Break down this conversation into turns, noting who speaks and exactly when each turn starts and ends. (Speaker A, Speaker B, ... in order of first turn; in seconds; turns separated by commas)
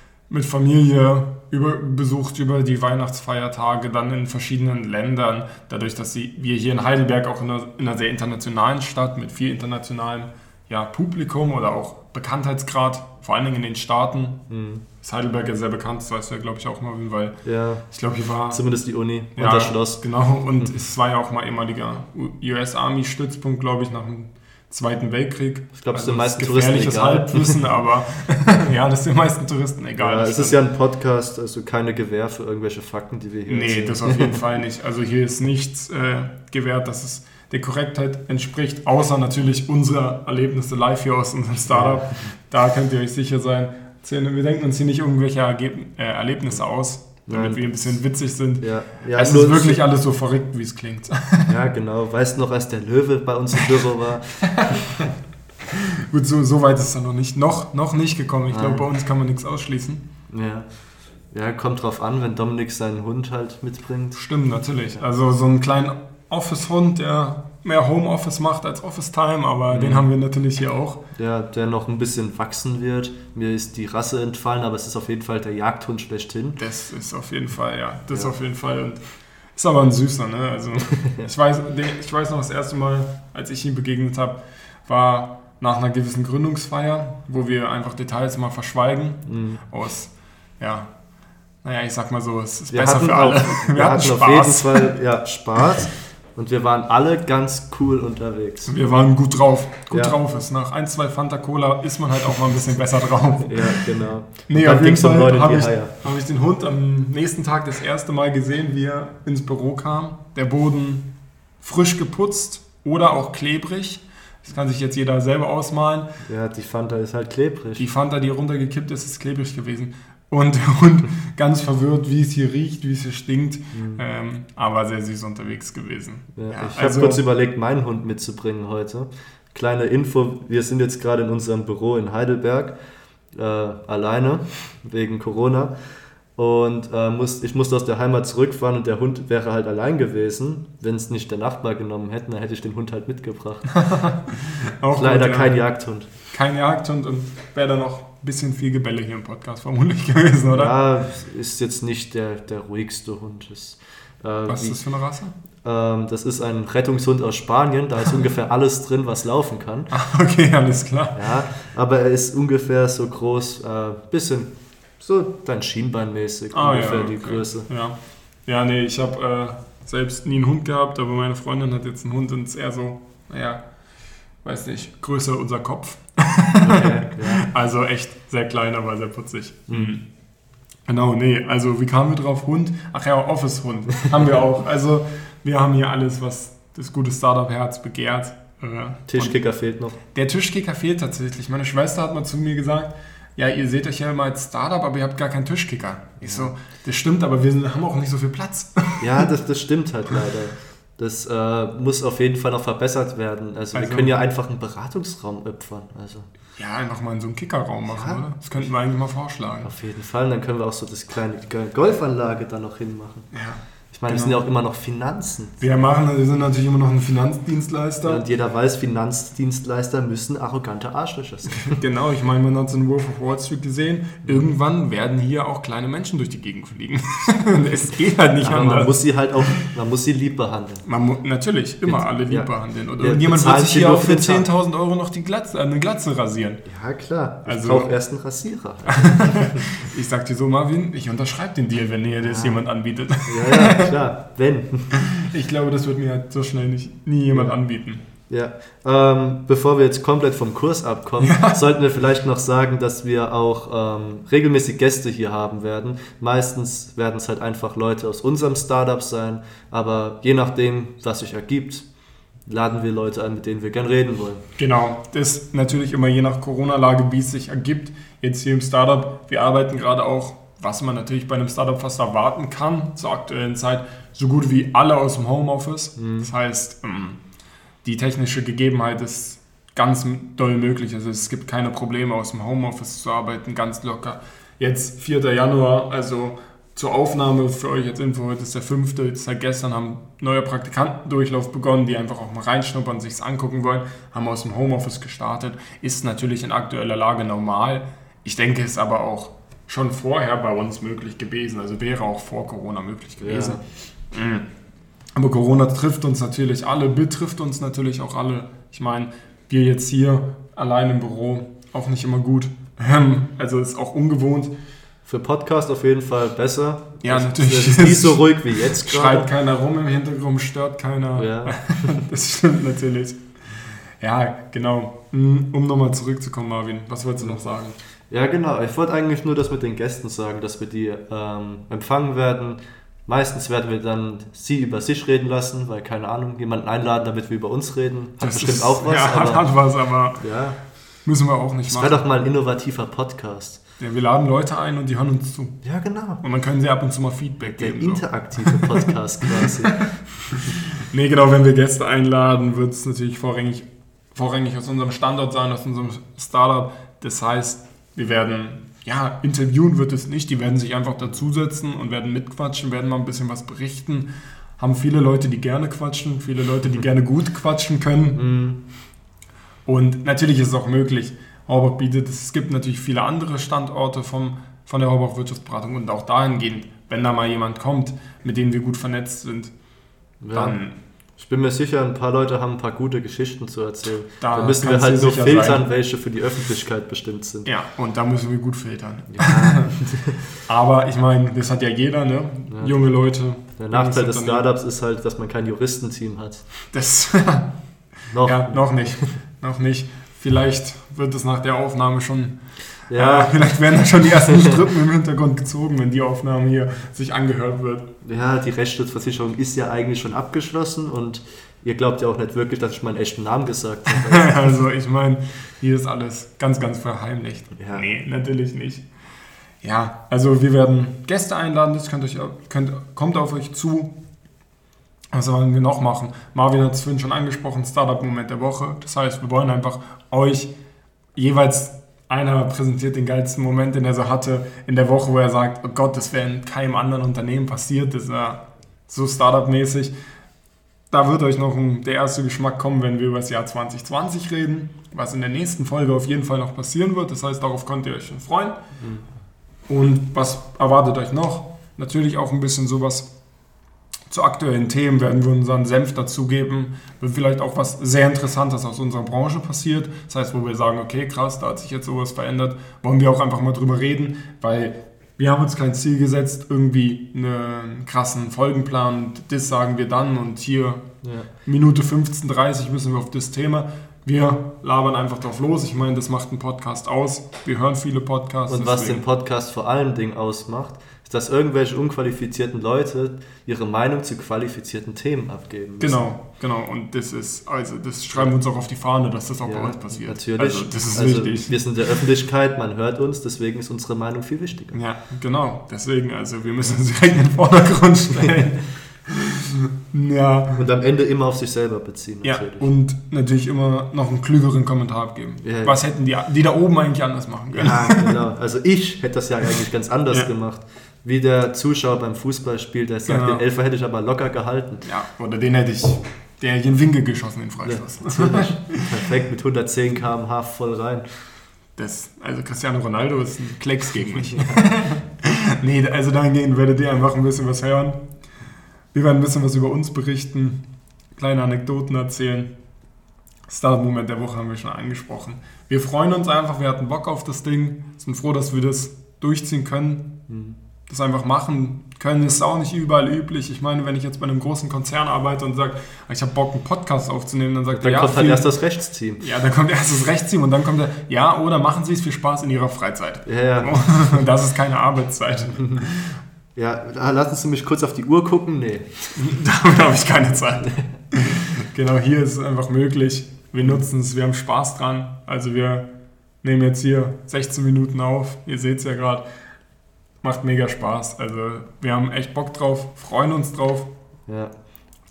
Speaker A: 0.3-14.4, Speaker B: 14.5-14.8, Speaker A: 15.0-17.4, Speaker B: 17.4-17.9, Speaker A: 17.9-18.6, Speaker B: 18.5-20.0, Speaker A: 19.4-30.6, Speaker B: 25.8-27.6, Speaker B: 30.0-34.4, Speaker A: 33.5-51.6, Speaker B: 41.7-42.3, Speaker B: 47.3-47.6, Speaker B: 48.6-49.8, Speaker B: 51.5-54.9, Speaker A: 54.6-55.0, Speaker A: 55.7-60.0, Speaker B: 58.5-58.9, Speaker B: 60.3-60.7, Speaker B: 61.3-64.2, Speaker A: 64.2-71.0, Speaker B: 69.7-70.1, Speaker B: 71.2-76.6, Speaker A: 76.6-79.0, Speaker A: 79.6-90.9, Speaker B: 89.3-89.6, Speaker A: 91.6-94.9, Speaker B: 92.7-98.8, Speaker A: 98.7-103.8, Speaker B: 99.9-100.2, Speaker B: 103.4-105.9, Speaker A: 104.5-111.1, Speaker A: 111.6-116.1, Speaker B: 116.2-117.8, Speaker A: 117.8-127.2, Speaker B: 123.7-124.0, Speaker B: 126.4-132.8, Speaker B: 133.3-135.7, Speaker B: 136.4-143.7, Speaker A: 143.7-145.6, Speaker B: 144.9-146.1, Speaker A: 146.3-150.7, Speaker B: 150.5-154.8, Speaker A: 154.5-155.3, Speaker B: 155.6-159.9, Speaker A: 159.9-161.2, Speaker B: 161.2-167.7, Speaker A: 166.5-173.6, Speaker A: 174.4-180.0, Speaker B: 176.6-177.4, Speaker B: 179.7-179.9, Speaker A: 180.9-189.4, Speaker B: 189.1-190.0, Speaker A: 190.1-199.2, Speaker B: 196.2-196.5, Speaker B: 199.0-206.3, Speaker A: 203.7-204.2, Speaker A: 206.6-209.7, Speaker B: 207.9-208.2, Speaker B: 209.6-213.3, Speaker A: 213.3-214.4, Speaker B: 213.9-215.6, Speaker A: 215.6-218.2, Speaker B: 218.1-221.7, Speaker A: 221.6-229.6, Speaker B: 224.2-224.5, Speaker B: 228.4-230.8, Speaker A: 230.8-236.6, Speaker B: 231.8-234.5, Speaker B: 236.7-239.6, Speaker A: 237.4-237.9, Speaker A: 238.9-243.9, Speaker B: 242.2-242.6, Speaker B: 243.3-244.9, Speaker A: 244.9-248.0, Speaker B: 248.3-261.9, Speaker A: 251.2-251.6, Speaker B: 262.5-264.4, Speaker A: 264.6-277.2, Speaker B: 276.0-276.3, Speaker A: 277.8-303.6, Speaker B: 303.2-303.6, Speaker A: 304.1-304.5, Speaker A: 305.2-314.5, Speaker B: 315.1-319.3, Speaker A: 317.0-323.2, Speaker B: 321.2-322.0, Speaker A: 324.0-327.8, Speaker B: 328.1-339.5, Speaker A: 338.2-340.2, Speaker B: 340.2-340.6, Speaker A: 341.1-342.0, Speaker B: 341.7-343.6, Speaker A: 343.8-345.6, Speaker B: 345.6-346.2, Speaker A: 346.2-348.9, Speaker B: 347.4-349.8, Speaker A: 350.5-364.1, Speaker A: 364.6-368.2, Speaker B: 368.1-368.6, Speaker A: 369.7-379.5, Speaker B: 380.2-380.6, Speaker A: 380.3-380.8, Speaker B: 381.2-387.5, Speaker A: 384.2-385.6, Speaker A: 387.4-389.8, Speaker B: 389.1-390.2, Speaker A: 390.5-394.4, Speaker B: 392.5-392.8, Speaker B: 393.6-396.4, Speaker A: 396.7-397.5, Speaker B: 398.1-399.1, Speaker A: 398.2-402.4, Speaker B: 402.9-403.6, Speaker A: 402.9-407.9, Speaker B: 408.0-414.4, Speaker A: 413.9-418.9, Speaker B: 417.6-417.9, Speaker A: 419.6-423.9, Speaker A: 425.1-430.5, Speaker A: 431.1-439.9, Speaker A: 440.9-448.6, Speaker B: 448.8-449.1, Speaker A: 449.7-453.1, Speaker A: 454.1-470.8, Speaker B: 471.0-471.3, Speaker A: 471.4-479.0, Speaker B: 478.5-486.1, Speaker A: 485.8-491.6, Speaker B: 489.4-494.8, Speaker A: 494.7-500.6, Speaker B: 500.6-502.7, Speaker A: 502.2-508.1, Speaker B: 505.4-505.8, Speaker B: 507.5-514.8, Speaker A: 513.1-513.4, Speaker A: 514.8-518.8, Speaker B: 517.6-521.1, Speaker A: 521.8-528.0, Speaker B: 524.2-524.6, Speaker A: 528.9-530.6, Speaker A: 531.2-532.5, Speaker A: 533.5-540.1, Speaker B: 540.3-540.6, Speaker A: 540.9-548.5, Speaker B: 547.7-549.2, Speaker A: 549.2-556.2, Speaker B: 553.3-554.2, Speaker B: 556.5-559.2, Speaker A: 559.2-565.9, Speaker A: 566.4-569.2, Speaker A: 570.2-573.9, Speaker B: 574.3-574.5